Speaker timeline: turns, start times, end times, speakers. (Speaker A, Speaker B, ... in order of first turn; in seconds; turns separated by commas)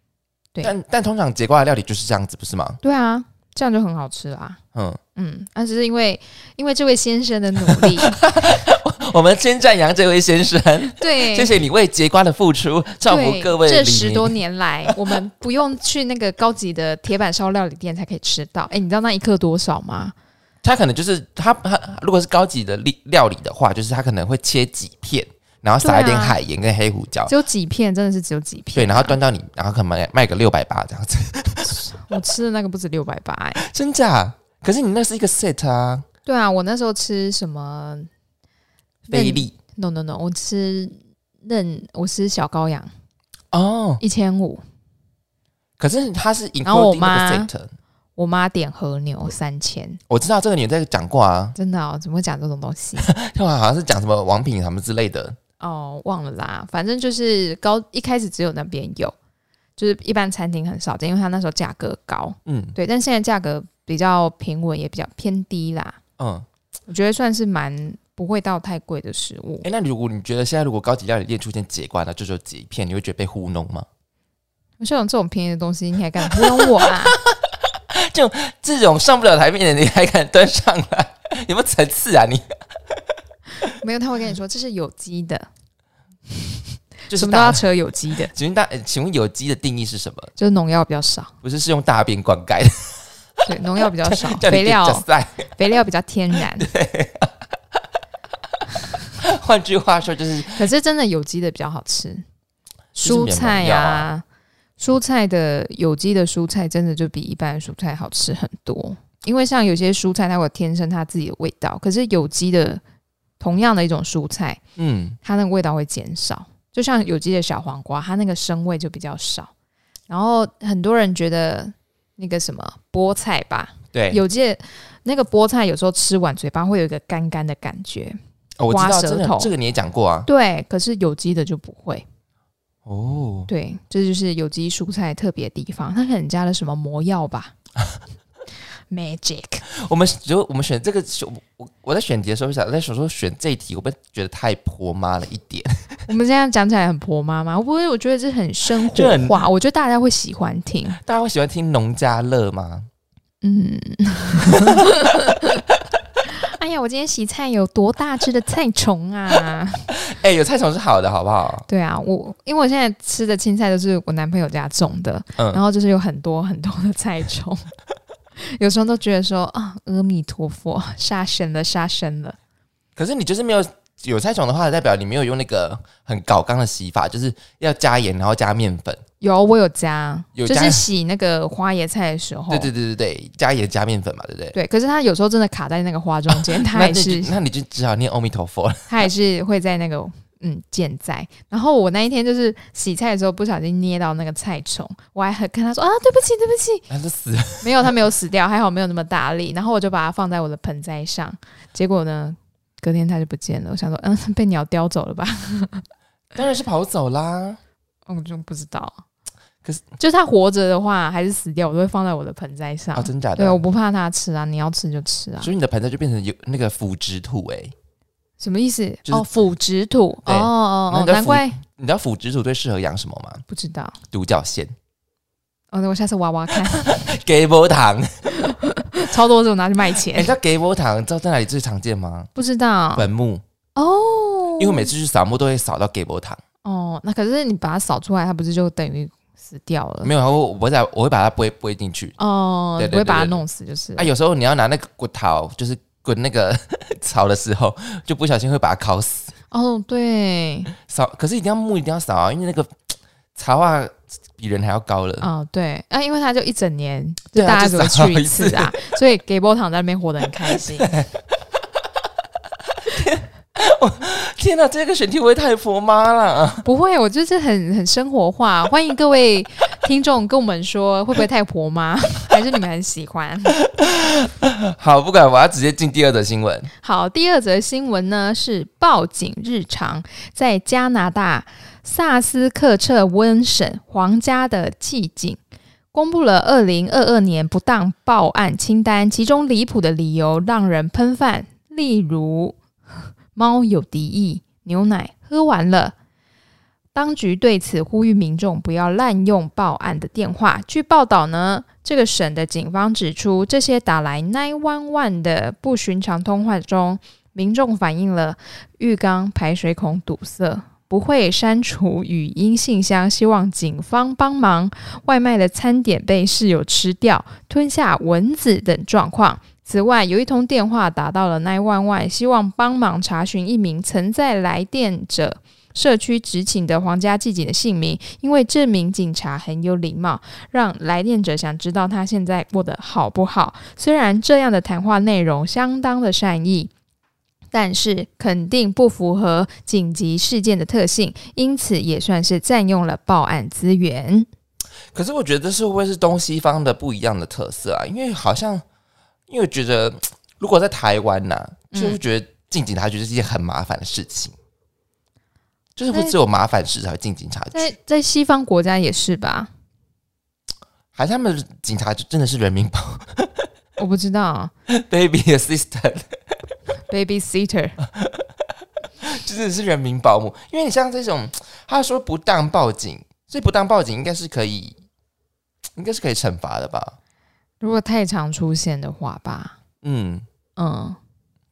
Speaker A: 0.6-2.8, Speaker B: 2.8-4.6, Speaker A: 4.7-5.0, Speaker B: 5.1-8.2, Speaker A: 7.7-14.3, Speaker B: 11.0-11.6, Speaker B: 13.1-20.1, Speaker A: 20.6-27.3, Speaker B: 25.8-26.4, Speaker B: 27.3-29.2, Speaker A: 28.7-31.8, Speaker B: 31.6-33.6, Speaker A: 33.6-36.0, Speaker B: 36.2-38.1, Speaker A: 39.1-39.5, Speaker B: 39.1-42.9, Speaker A: 43.5-44.0, Speaker B: 44.0-44.6, Speaker A: 45.8-47.7, Speaker B: 46.6-47.5, Speaker B: 48.2-50.0, Speaker A: 50.1-51.5, Speaker B: 51.5-53.1, Speaker A: 53.0-55.4, Speaker B: 55.6-59.1, Speaker B: 59.8-66.0, Speaker A: 62.5-62.8, Speaker A: 66.2-66.5, Speaker B: 66.9-69.7, Speaker A: 69.6-73.9, Speaker B: 74.8-77.2, Speaker A: 76.2-82.5, Speaker B: 83.7-85.5, Speaker B: 87.1-88.3, Speaker A: 87.1-87.7, Speaker A: 88.3-90.3, Speaker B: 90.4-91.3, Speaker A: 91.4-93.0, Speaker B: 93.4-96.7, Speaker A: 94.0-95.5, Speaker A: 96.4-97.4, Speaker A: 99.2-100.7, Speaker B: 100.5-102.2, Speaker A: 102.9-104.1, Speaker B: 103.0-104.2, Speaker B: 104.8-112.8, Speaker B: 113.4-114.6, Speaker A: 114.8-115.2, Speaker B: 115.2-119.5, Speaker B: 120.1-128.2, Speaker A: 123.9-124.2, Speaker A: 128.6-130.3, Speaker B: 128.7-129.5, Speaker B: 130.2-132.0, Speaker A: 132.8-133.5, Speaker B: 133.5-137.5, Speaker B: 138.9-139.6, Speaker A: 139.7-146.0, Speaker B: 146.1-151.0, Speaker A: 148.8-149.4, Speaker A: 151.0-152.9, Speaker B: 153.4-155.6, Speaker B: 156.3-159.9, Speaker A: 160.0-161.7, Speaker B: 161.7-167.7, Speaker B: 168.4-172.4, Speaker A: 172.9-179.0, Speaker B: 179.2-182.7, Speaker A: 180.3-180.9, Speaker A: 182.5-184.6, Speaker B: 184.5-187.3, Speaker A: 186.3-189.1, Speaker B: 188.9-196.9, Speaker A: 196.9-197.9, Speaker B: 197.6-205.8, Speaker A: 206.3-207.6, Speaker B: 208.1-209.0, Speaker B: 210.0-215.5, Speaker A: 212.9-213.6, Speaker A: 215.4-217.7, Speaker B: 218.4-221.6, Speaker A: 220.2-223.4, Speaker B: 223.5-224.0, Speaker A: 224.1-224.7, Speaker B: 225.7-227.1, Speaker A: 226.6-228.3, Speaker B: 228.3-230.3, Speaker A: 230.1-232.3, Speaker B: 232.3-233.1, Speaker A: 232.9-233.4, Speaker B: 233.8-234.9, Speaker A: 234.6-236.4, Speaker B: 236.6-240.1, Speaker A: 240.0-242.2, Speaker B: 242.2-244.1, Speaker A: 242.8-243.4, Speaker A: 244.0-249.3, Speaker B: 249.5-250.7, Speaker A: 250.8-252.8, Speaker A: 253.3-255.3, Speaker B: 255.2-260.9, Speaker A: 257.3-258.9, Speaker A: 260.5-261.1, Speaker A: 262.8-266.6, Speaker B: 266.6-273.6, Speaker A: 273.6-276.7, Speaker B: 276.8-285.4, Speaker B: 285.9-292.6, Speaker B: 293.3-295.9, Speaker B: 296.9-336.7, Speaker B: 337.5-344.3, Speaker A: 344.9-348.6, Speaker A: 349.3-354.3, Speaker B: 351.7-352.0, Speaker A: 355.8-357.7, Speaker B: 357.5-359.5, Speaker A: 360.9-363.5, Speaker B: 363.8-364.5, Speaker A: 364.7-366.3, Speaker B: 366.9-367.8, Speaker A: 367.8-368.2, Speaker A: 369.0-374.8, Speaker A: 375.8-376.9, Speaker B: 377.6-379.6, Speaker A: 379.8-380.2, Speaker B: 380.6-381.0